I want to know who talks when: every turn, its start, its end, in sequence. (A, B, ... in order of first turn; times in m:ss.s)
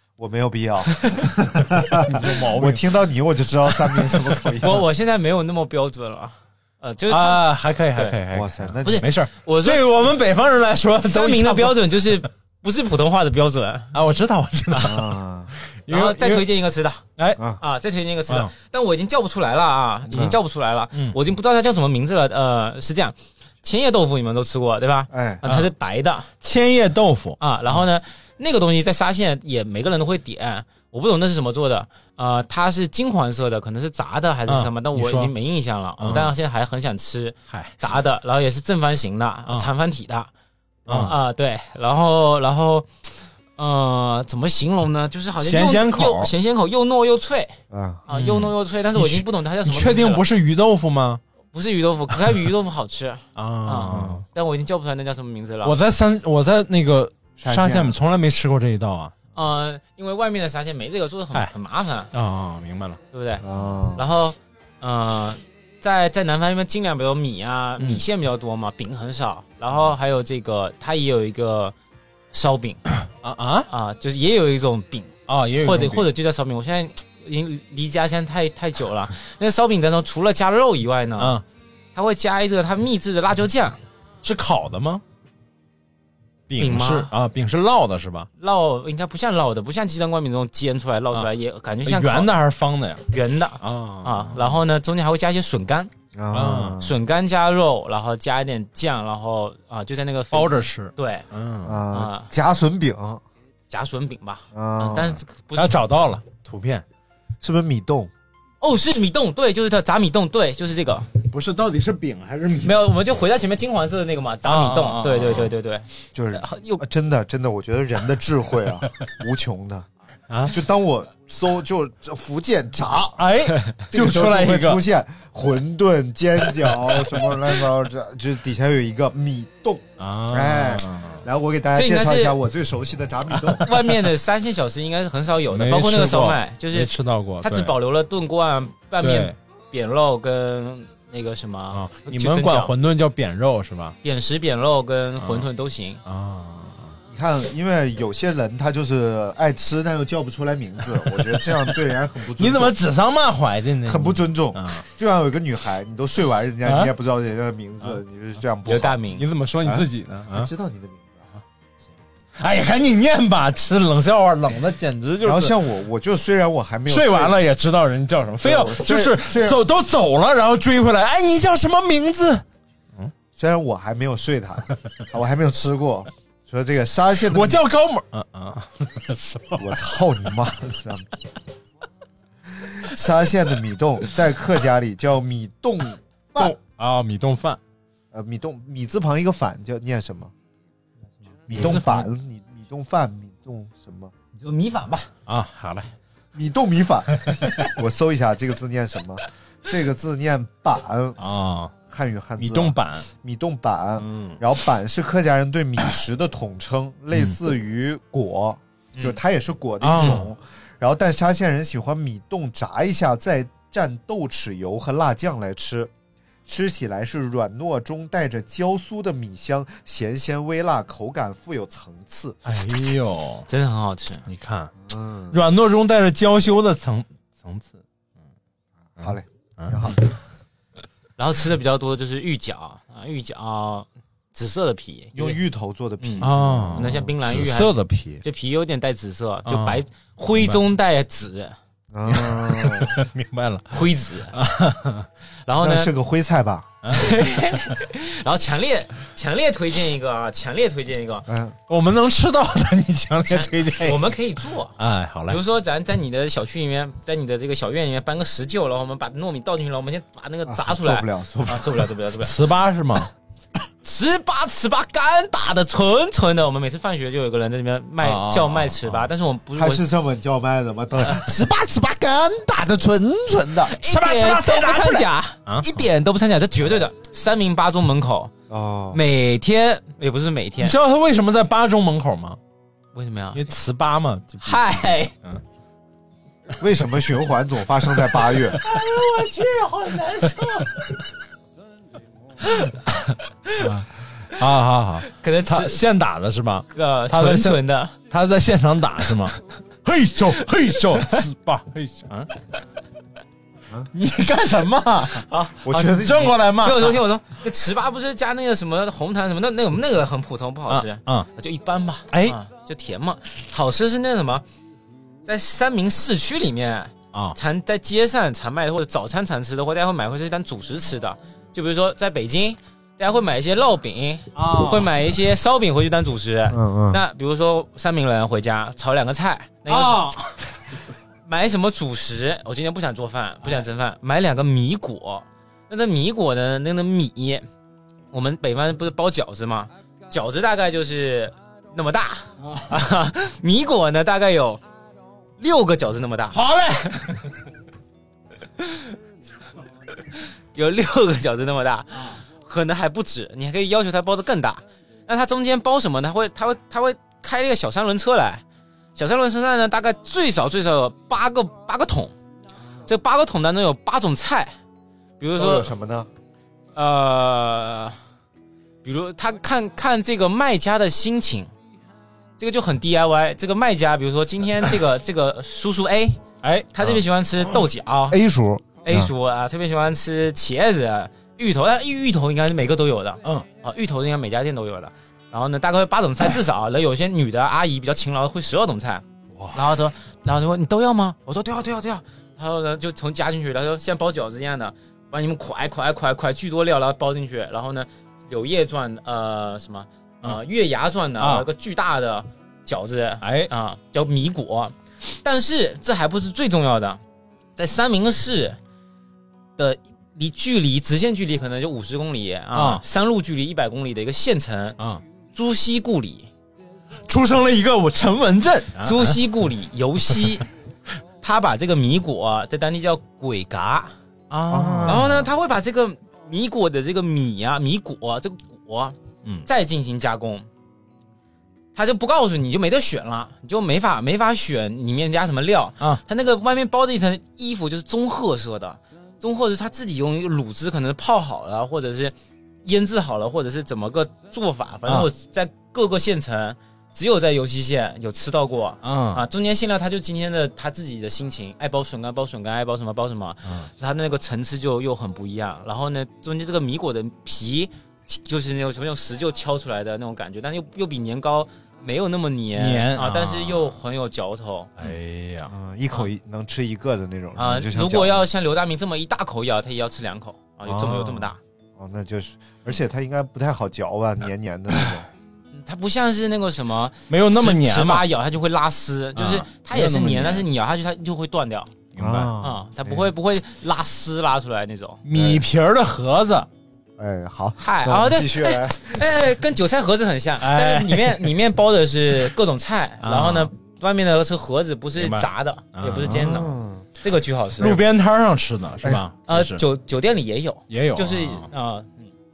0:00.2-0:04.8 A
0:02.0-0:03.0 B
0:04.0-0:04.4 B
0:04.6-0:08.2 C
0:07.1-0:12.3 B
0:08.3-0:09.1 A
0:08.8-0:10.1 C
0:11.0-0:13.9 C
0:13.9-0:15.2 B
0:14.8-0:15.5 A
0:15.7-0:16.5 B
0:15.9-0:17.0 C
0:17.2-0:17.4 B
0:17.6-0:26.3 C
0:20.1-0:20.4 A
0:25.1-0:25.4 A
0:25.4-0:25.7 B
0:26.4-0:27.4 B
0:27.4-0:40.3 C
0:34.5-0:35.3 B
0:36.0-0:36.3 B
0:37.5-0:37.7 B
0:40.9-0:41.1 B
0:40.9-0:50.2 C
0:45.4-0:46.3 B
0:47.7-0:48.0 A
0:48.1-0:51.2 B
0:51.5-0:55.7 C
0:53.4-0:54.2 B
0:53.9-0:54.2 A
0:55.6-0:59.1 B
0:57.4-0:58.0 A
0:59.3-1:02.1 C
1:02.1-1:03.0 B
1:03.1-1:03.4 C
1:03.4-1:04.0 A
1:04.0-1:11.7 C
1:07.8-1:08.0 B
1:12.3-1:12.8 C
1:13.1-1:13.7 B
1:13.7-1:21.4 C
1:15.3-1:16.1 B
1:21.9-1:23.8 C
1:24.2-1:25.0 B
1:26.5-1:28.3 B
1:26.6-1:27.1 C
1:28.4-1:32.3 C
1:31.8-1:33.1 B
1:33.1-1:35.9 C
1:33.6-1:34.6 B
1:36.1-1:37.0 A
1:36.3-1:36.8 B
1:36.8-1:41.2 C
1:40.3-1:41.8 B
1:41.6-1:43.2 A
1:41.9-1:42.3 C
1:43.7-1:45.7 C
1:44.5-1:45.2 A
1:45.5-1:46.8 B
1:47.4-1:48.1 A
1:48.6-1:51.1 C
1:51.3-1:52.9 B
1:52.6-1:56.8 C
1:54.4-1:55.5 B
1:56.1-1:59.9 A
2:00.3-2:00.6 B
2:00.5-2:03.3 A
2:03.2-2:04.8 B
2:03.9-2:13.7 A
2:10.0-2:11.2 B
2:11.7-2:12.4 C
2:13.3-2:14.1 B
2:13.6-2:22.7 C
2:15.5-2:17.7 B
2:19.0-2:19.3 B
2:21.7-2:24.0 B
2:24.0-2:26.0 C
2:25.2-2:25.5 B
2:26.0-2:27.0 B
2:27.1-2:32.8 A
2:31.1-2:31.8 B
2:32.4-2:34.8 B
2:33.8-2:39.0 A
2:36.6-2:36.9 B
2:38.6-2:39.2 C
2:39.2-2:40.5 B
2:39.6-2:41.2 A
2:42.4-2:45.6 B
2:45.2-2:47.4 A
2:46.9-2:52.4 B
2:48.4-2:49.6 A
2:53.3-2:57.6 A
2:57.2-2:59.7 B
2:59.6-3:01.1 A
3:02.5-3:06.5 A
3:06.4-3:07.6 B
3:08.1-3:10.3 A
3:11.5-3:14.1 A
3:11.5-3:12.1 B
3:14.4-3:15.1 C
3:15.3-3:15.9 B
3:16.3-3:21.2 A
3:17.3-3:17.5 B
3:21.2-3:21.7 B
3:21.9-3:35.9 A
3:22.4-3:23.1 B
3:24.0-3:24.4 B
3:29.8-3:30.3 B
3:36.4-3:42.4 A
3:42.4-3:43.5 B
3:43.5-3:44.2 C
3:44.3-3:44.7 B
3:44.8-3:45.4 A
3:45.3-3:47.8 B
3:49.0-3:50.0 A
3:49.0-3:50.0 B
3:51.2-3:55.4 C
3:55.1-3:57.1 A
3:56.0-4:01.6 C
3:56.2-3:58.2 B
3:59.4-3:59.8 B
4:00.3-4:00.6 B
4:01.9-4:03.0 A
4:02.1-4:05.1 B
4:03.7-4:04.4 C
4:05.4-4:05.9 C
4:05.6-4:06.7 A
4:06.8-4:07.5 B
4:06.9-4:11.3 C
4:11.3-4:11.6 A
4:11.7-4:14.1 B
4:13.3-4:14.8 C
4:14.8-4:15.4 B
4:15.3-4:22.3 C
4:20.4-4:21.8 A
4:22.2-4:23.1 B
4:23.8-4:29.8 C
4:28.0-4:29.1 B
4:29.6-4:33.7 A
4:33.7-4:38.3 C
4:33.8-4:35.8 B
4:38.5-4:39.0 A
4:38.9-4:40.7 C
4:40.6-4:42.4 B
4:42.9-4:43.4 C
4:43.3-4:45.4 B
4:44.4-4:45.1 C
4:46.6-4:48.6 A
4:48.6-4:50.7 C
4:53.6-5:02.3 B
4:55.1-4:55.8 C
4:56.7-4:57.9 C
5:03.9-5:07.0 B
5:05.3-5:05.7 C
5:05.6-5:06.4 A
5:06.6-5:14.4 C
5:10.7-5:11.3 B
5:12.1-5:12.4 B
5:15.2-5:30.0 C
5:24.3-5:24.9 B
5:26.5-5:27.0 A
5:29.7-5:30.4 B
5:31.2-5:37.4 C
5:38.1-5:44.6 C
5:42.4-5:42.7 B
5:45.4-5:46.4 C
5:46.3-5:47.3 B
5:48.6-5:48.8 C
5:50.5-5:58.4 C
5:59.0-6:02.1 C
6:02.9-6:04.5 C
6:05.2-6:05.7 C
6:05.4-6:06.1 A
6:06.7-6:08.0 C
6:08.8-6:11.5 C
6:12.4-6:16.2 C
6:16.4-6:16.9 B
6:16.7-6:18.2 C
6:18.1-6:19.1 A
6:18.8-6:47.0 C
6:29.3-6:29.6 B
6:41.2-6:41.5 B
6:43.2-6:43.5 B
6:47.6-6:48.6 C
6:49.6-6:54.8 C
6:52.5-6:52.8 B
6:55.3-6:56.3 C
6:57.1-6:59.2 B
6:58.8-7:00.4 C
7:01.2-7:03.9 C
7:04.3-7:05.1 B
7:04.5-7:05.2 A
7:04.8-7:10.4 C
7:11.7-7:44.9 C
7:28.8-7:29.2 B
7:42.5-7:43.8 B
7:44.8-7:45.5 B
7:45.5-7:48.2 A
7:47.4-7:51.4 C
7:50.6-7:55.1 A
7:55.5-8:01.7 C
7:57.1-7:58.1 B
7:59.2-8:00.5 B
8:01.9-8:02.3 B
8:02.0-8:03.1 A
8:02.4-8:05.0 C
8:05.0-8:06.5 B
8:05.1-8:05.4 A
8:07.0-8:09.1 A
8:07.6-8:17.8 C
8:10.4-8:11.3 B
8:13.0-8:13.5 B
8:15.0-8:16.3 B
8:16.0-8:16.9 A
8:17.6-8:19.6 B
8:19.3-8:22.1 C
8:20.7-8:21.5 B